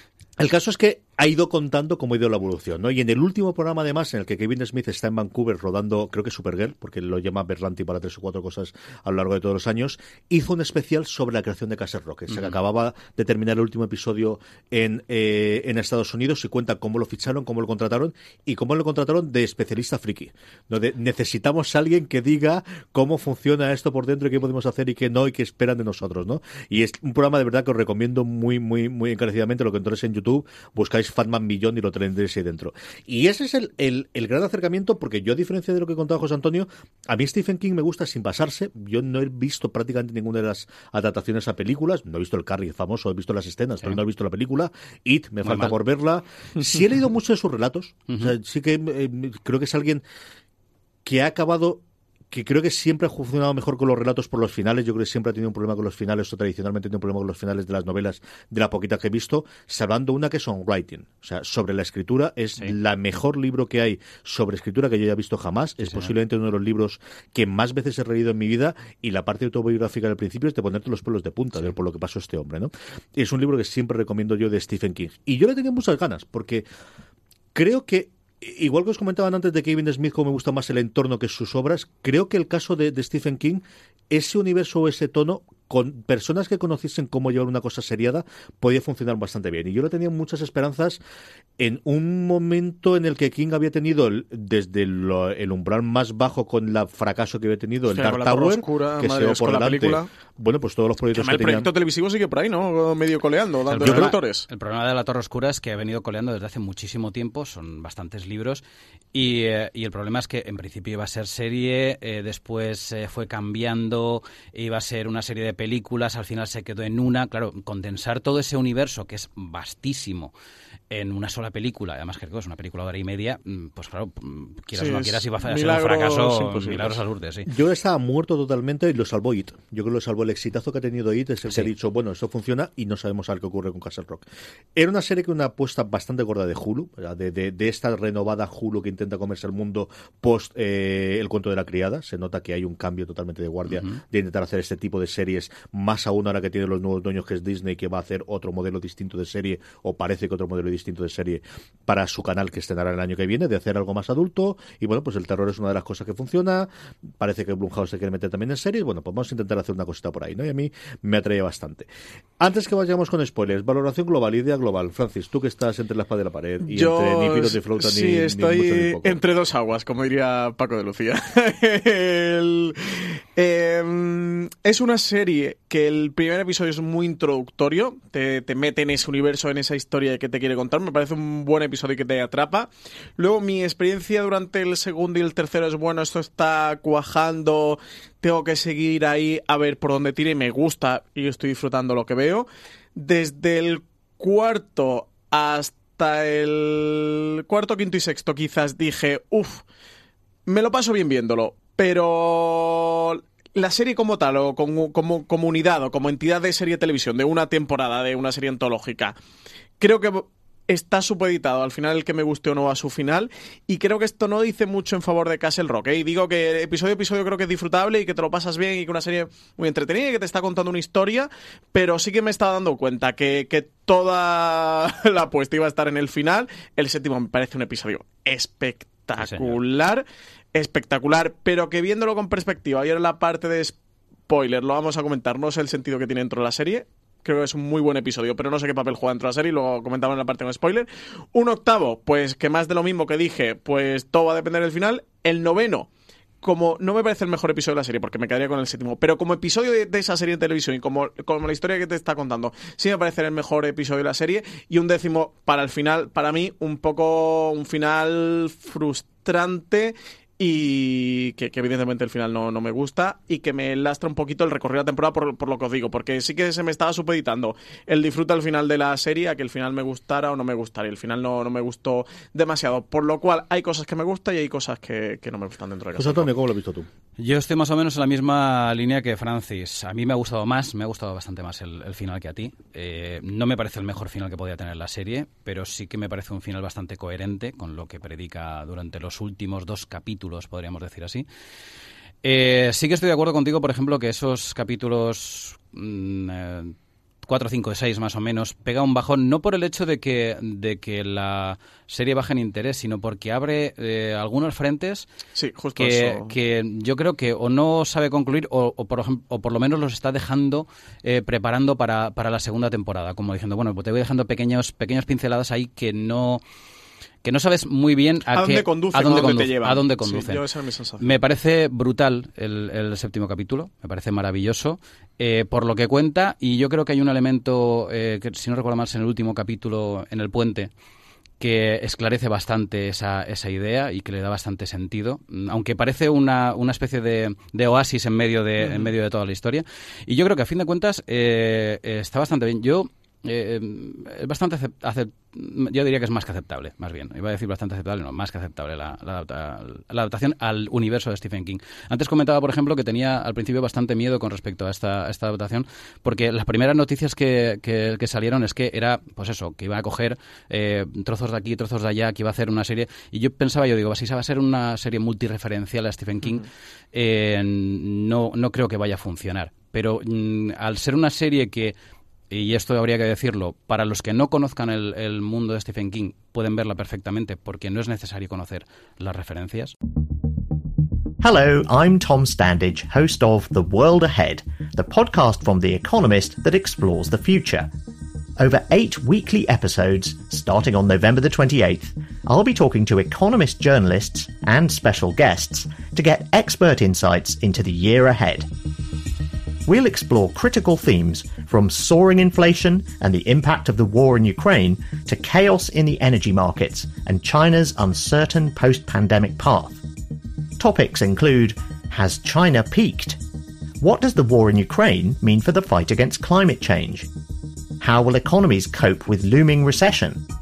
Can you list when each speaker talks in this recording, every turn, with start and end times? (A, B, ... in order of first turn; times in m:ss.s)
0:00.4-0:50.0 A
0:12.3-0:12.6 B
0:45.4-0:45.8 B
0:48.1-0:48.3 B
0:51.0-1:16.7 A
1:17.6-1:31.0 A
1:31.6-1:41.7 A
1:37.9-1:40.1 C
1:41.1-1:44.5 C
1:43.7-1:48.6 B
1:43.8-1:44.2 A
1:49.1-2:00.3 B
2:00.9-2:07.5 B
2:04.8-2:07.0 C
2:07.5-2:41.9 A
2:23.7-2:24.0 B
2:42.4-2:49.2 A
2:46.6-3:19.6 C
3:20.5-3:29.2 C
3:29.8-3:53.8 C
3:49.2-3:49.6 B
3:54.3-4:05.9 C
4:06.4-4:36.3 C
4:36.0-4:36.9 A
4:37.2-4:51.3 B
4:52.2-5:05.1 B
5:05.4-5:06.3 C
5:05.8-5:16.4 B
5:17.2-5:20.4 B
5:18.3-5:21.1 C
5:21.0-5:30.7 B
5:31.4-6:11.8 B
5:38.6-5:38.9 C
6:12.3-6:19.7 B
6:21.2-6:27.7 D
6:28.4-6:38.5 D
6:39.7-6:49.8 D
6:50.6-6:53.2 D
6:53.8-6:57.1 D
6:57.8-7:00.3 D